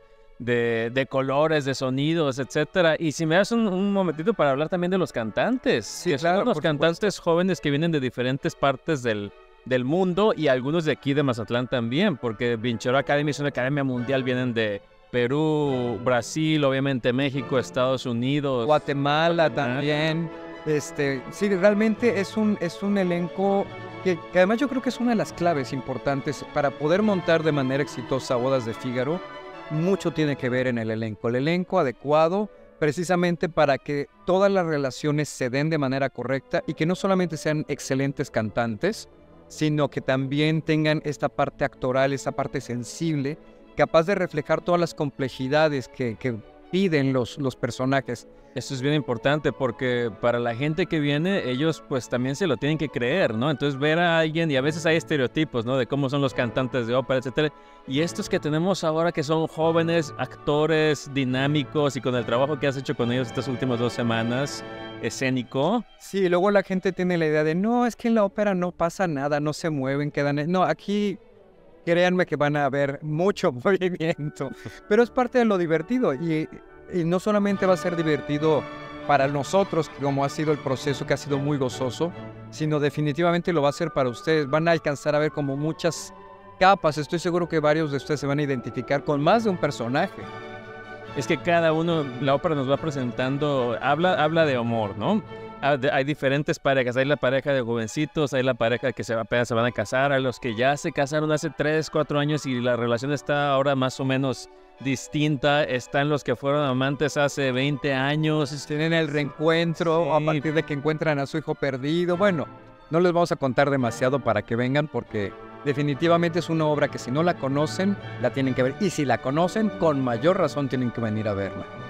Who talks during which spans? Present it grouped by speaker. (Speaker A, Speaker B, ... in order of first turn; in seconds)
Speaker A: 0.4-19.8, 48.5-65.8, 91.1-109.3, 109.8-110.4
Speaker B: 6.0-7.0, 18.6-48.3, 66.0-71.2, 71.8-90.3, 108.7-121.7